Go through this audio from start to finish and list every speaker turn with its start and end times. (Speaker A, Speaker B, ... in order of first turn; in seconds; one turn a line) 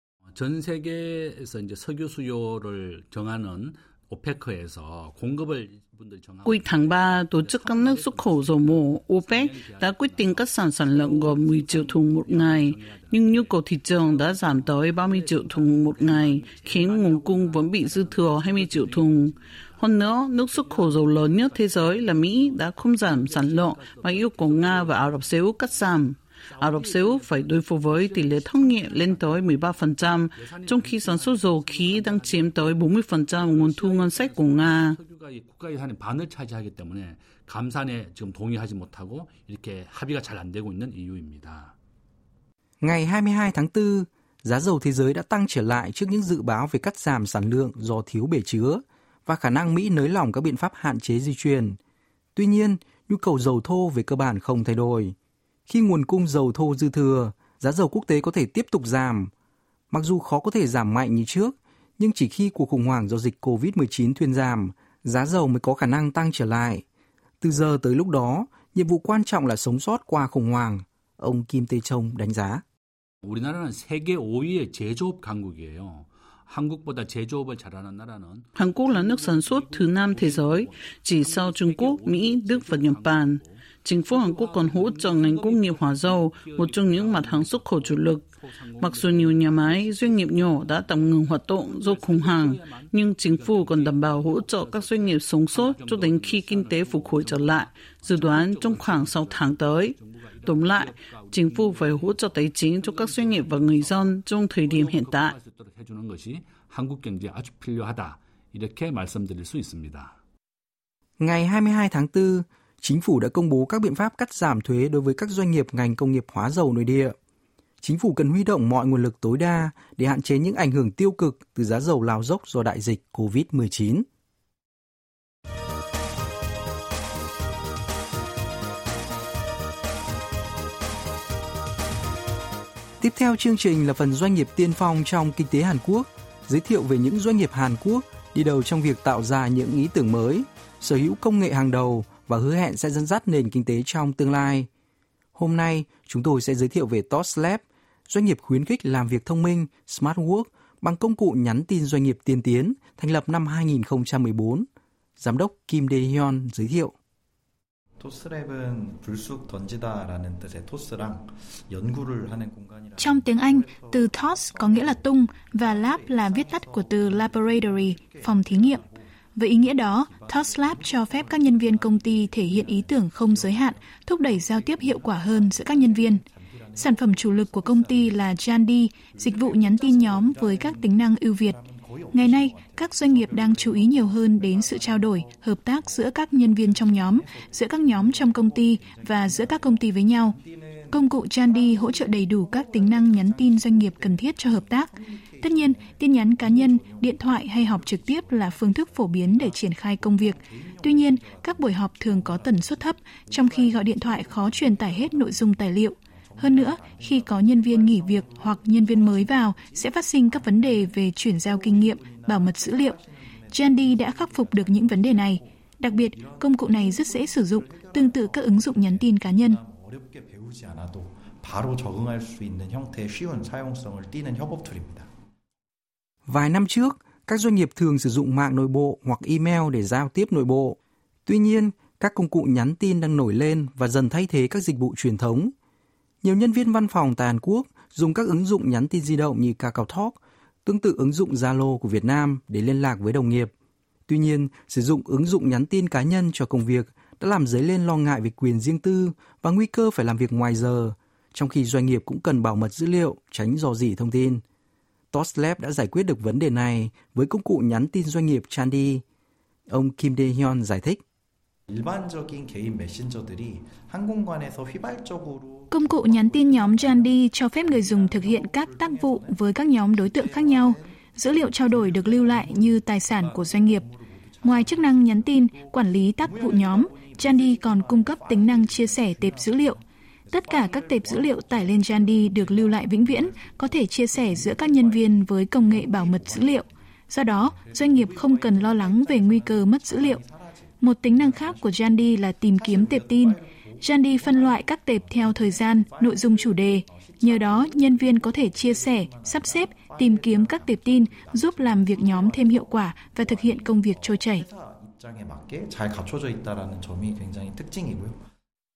Speaker A: 0.3-25.4
Speaker B: 6.4-35.0
Speaker A: 26.4-41.7
Speaker C: 42.8-51.8
Speaker C: 52.4-55.1
Speaker C: 55.7-59.3
Speaker C: 59.9-66.8
Speaker C: 67.4-72.6
Speaker A: 73.2-110.1
Speaker B: 78.5-88.2
Speaker B: 88.8-105.3
Speaker C: 111.2-117.1
Speaker C: 117.8-124.0
Speaker C: 133.0-144.7
Speaker C: 145.3-154.7
Speaker C: 155.2-156.9
Speaker D: 158.0-178.3
Speaker E: 163.0-168.8
Speaker E: 169.3-176.2
Speaker E: 176.8-181.6
Speaker D: 179.1-225.1
Speaker E: 182.1-190.4
Speaker E: 190.9-194.9
Speaker E: 195.4-213.0
Speaker E: 213.5-219.6
Speaker C: 226.2-235.5
Speaker C: 236.2-243.5
Speaker C: 244.1-254.4
Speaker C: 255.1-259.0
Speaker C: 259.7-261.0
Speaker D: 261.7-291.9
Speaker E: 265.7-273.9
Speaker E: 274.4-279.8
Speaker E: 280.3-290.2
Speaker E: 290.8-304.4
Speaker D: 292.5-308.2